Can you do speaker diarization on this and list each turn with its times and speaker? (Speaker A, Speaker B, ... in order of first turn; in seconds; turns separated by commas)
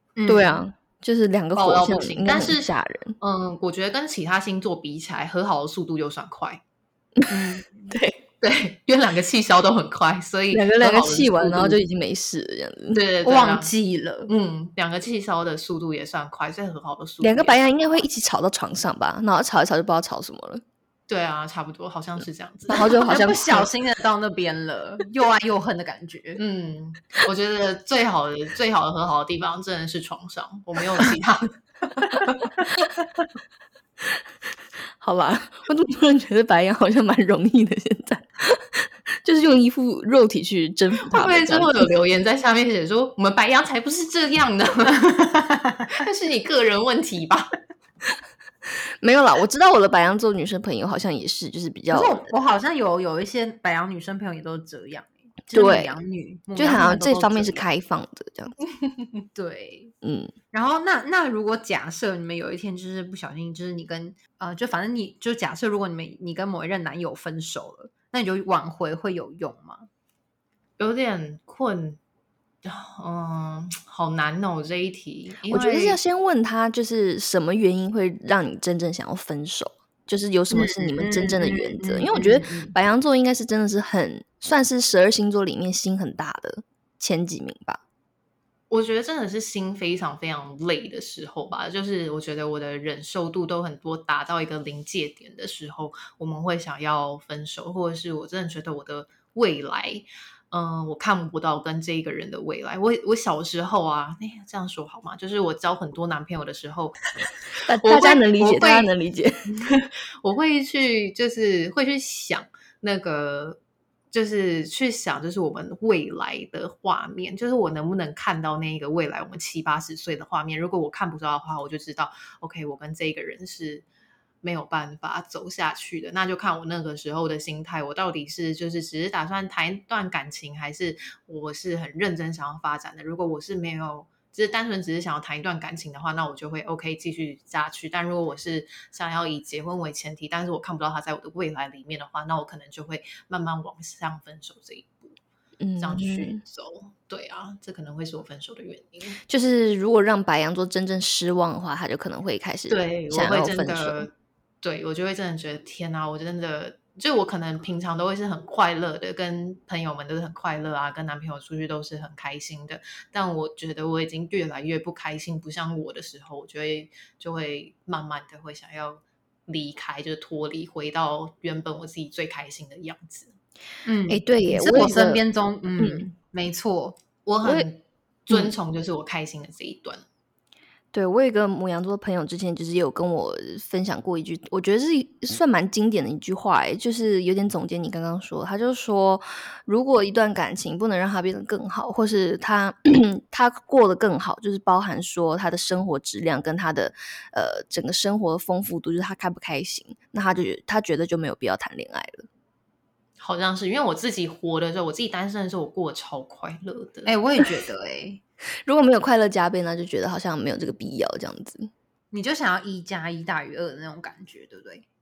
Speaker A: 0.2-0.6, Speaker B: 0.3-3.2, Speaker C: 1.6-6.6, Speaker A: 7.3-7.9, Speaker B: 7.9-8.2, Speaker C: 8.4-11.8, Speaker B: 10.5-13.0, Speaker C: 12.9-13.7, Speaker A: 13.2-14.3, Speaker C: 14.3-18.0, Speaker B: 17.2-20.6, Speaker C: 21.1-22.9, Speaker B: 22.7-23.7, Speaker A: 22.8-26.4, Speaker C: 26.4-32.4, Speaker B: 35.0-41.9, Speaker C: 41.1-45.1, Speaker A: 45.3-45.9, Speaker C: 45.9-47.5, Speaker B: 49.0-52.3, Speaker A: 51.9-57.6, Speaker B: 55.5-55.9, Speaker B: 56.5-58.5, Speaker A: 59.4-59.9, Speaker B: 60.0-60.3, Speaker A: 60.5-69.9, Speaker C: 70.8-72.0, Speaker C: 72.6-76.0, Speaker B: 75.5-87.8, Speaker A: 80.5-82.7, Speaker C: 88.7-107.0, Speaker B: 107.6-109.4, Speaker C: 107.8-108.9, Speaker C: 109.5-113.6, Speaker C: 114.1-123.8, Speaker C: 124.4-145.2, Speaker B: 145.6-146.4, Speaker C: 145.8-149.2, Speaker B: 149.3-154.1, Speaker C: 152.7-173.3, Speaker A: 173.9-177.0, Speaker B: 174.1-175.2, Speaker B: 175.8-176.1, Speaker C: 177.3-180.0, Speaker B: 180.9-202.3, Speaker C: 203.2-207.1, Speaker A: 207.1-208.2, Speaker B: 208.7-211.7, Speaker A: 212.1-214.8